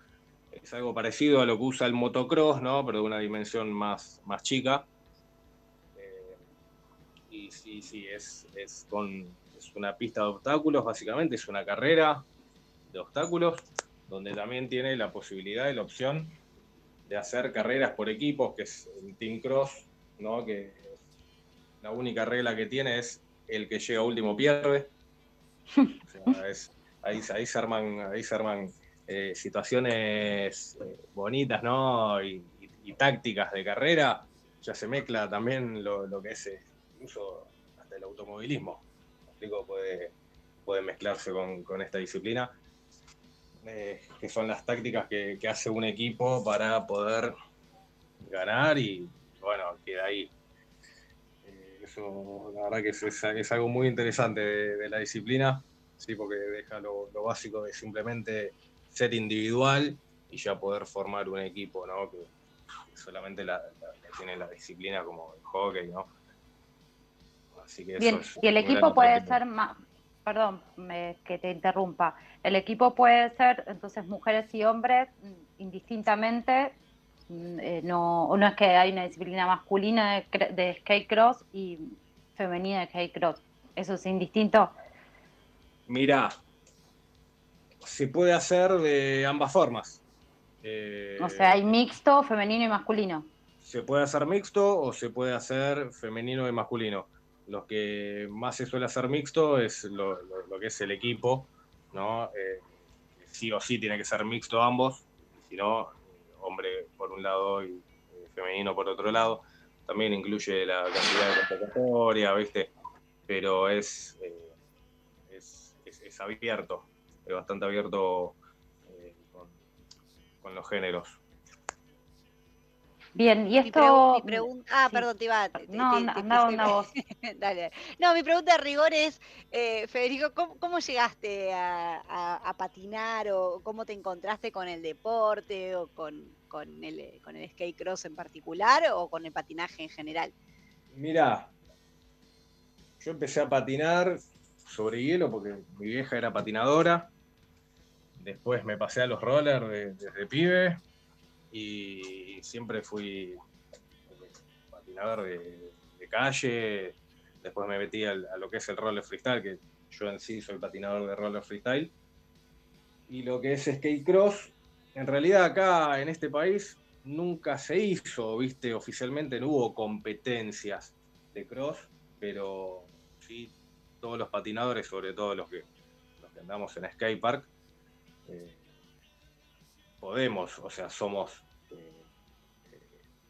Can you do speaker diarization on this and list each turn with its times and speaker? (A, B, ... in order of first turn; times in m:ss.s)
0:00.5-0:04.9 A
0:05.9-0:06.4 A
0:07.3-0:12.2 A
0:12.9-0:16.4 A
0:17.1-0:20.9 A
0:21.8-0:24.9 A
0:26.1-0:42.5 A
0:43.6-0:47.3 A
0:48.2-0:50.3 A
0:51.4-1:02.3 A
1:02.9-1:06.1 A
1:07.6-1:09.4 A
1:08.0-1:16.8 B
1:17.3-1:24.7 B
1:25.9-1:26.4 A
1:27.8-1:30.0 A
1:30.6-1:31.7 A
1:31.2-1:33.3 B
1:33.6-1:42.6 A
1:43.2-1:52.7 A
1:53.3-1:54.5 A
1:55.3-1:58.4 A
1:58.9-1:59.6 A
2:00.4-2:01.2 A
2:03.2-2:06.9 B
2:03.6-2:20.3 C
2:20.9-2:21.5 A
2:23.0-2:27.1 A
2:28.2-2:30.8 A
2:31.5-2:33.4 A
2:34.1-2:41.9 A
2:43.1-2:55.6 A
2:56.2-2:57.5 A
2:58.3-2:58.6 A
3:00.0-3:02.0 A